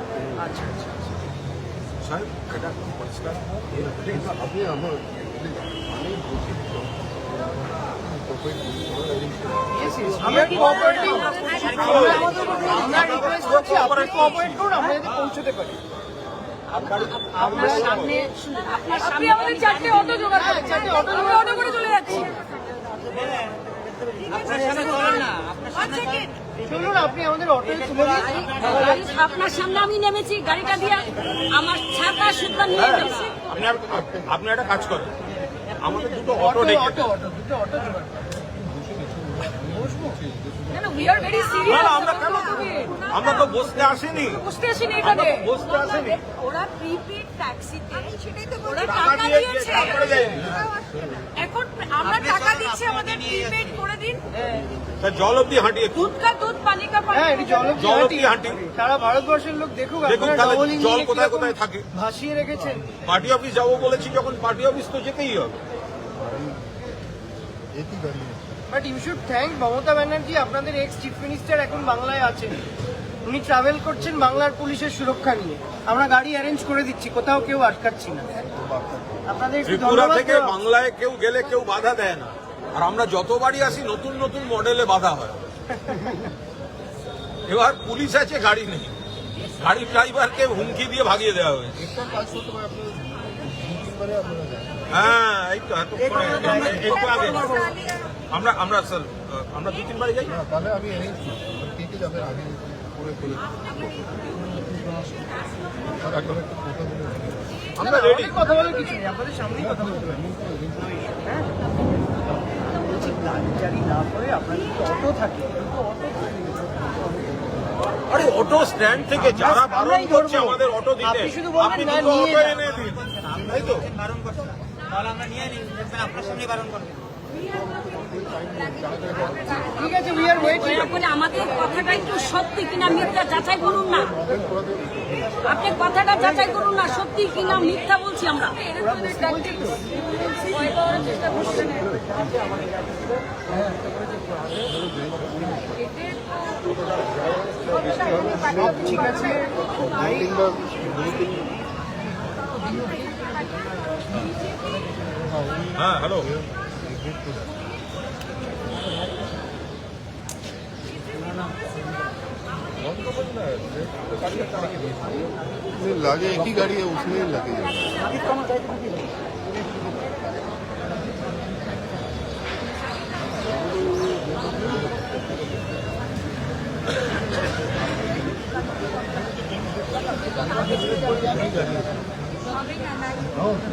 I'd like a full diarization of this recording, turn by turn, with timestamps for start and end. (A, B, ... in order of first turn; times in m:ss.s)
0:00.4-0:01.0 A
0:02.0-0:04.4 B
0:04.5-0:05.1 C
0:06.0-0:06.6 C
0:08.3-0:10.0 C
0:09.7-0:15.8 A
0:10.2-0:12.4 D
0:10.3-0:14.7 B
0:16.7-0:18.3 B
0:17.3-0:18.2 A
0:17.5-0:22.3 D
0:20.3-0:22.0 A
0:23.1-0:23.6 E
0:24.3-0:26.3 D
0:26.6-0:29.2 A
0:28.6-0:33.3 D
0:32.7-0:35.1 B
0:35.7-0:37.1 B
0:36.3-0:38.2 A
0:38.9-0:39.6 C
0:39.7-0:40.2 A
0:40.9-0:43.2 D
0:41.6-0:44.4 B
0:44.4-0:50.2 D
0:45.0-0:46.2 B
0:48.1-0:48.8 E
0:48.8-0:50.6 B
0:50.5-0:50.8 E
0:51.4-0:54.2 D
0:54.3-0:54.6 A
0:55.0-0:56.2 B
0:56.1-0:57.3 D
0:57.1-1:03.0 A
0:57.7-0:58.6 B
1:00.0-1:01.8 B
1:03.0-1:05.6 B
1:07.8-1:08.4 C
1:08.7-1:12.6 A
1:13.2-1:18.3 A
1:18.7-1:19.0 C
1:19.2-1:20.5 A
1:19.6-1:25.4 B
1:25.9-1:26.2 A
1:27.4-1:29.0 B
1:29.6-1:31.9 B
1:31.9-1:34.8 C
1:34.9-1:37.6 B
1:36.2-1:37.0 A
1:38.3-1:40.4 B
1:40.4-1:43.5 C
1:46.4-1:47.2 C
1:47.8-1:48.4 B
1:47.8-1:51.5 A
1:52.8-1:55.7 A
1:58.1-2:04.0 B
1:59.3-2:02.6 A
2:04.0-2:06.9 E
2:07.7-2:09.5 C
2:09.6-2:11.1 A
2:10.6-2:14.2 D
2:14.2-2:14.9 C
2:15.4-2:18.7 D
2:18.8-2:19.8 A
2:28.4-2:30.5 A
2:30.4-2:31.5 C
2:35.7-2:36.4 B
2:42.8-2:45.2 B
2:45.9-2:47.7 C
3:01.1-3:01.8 B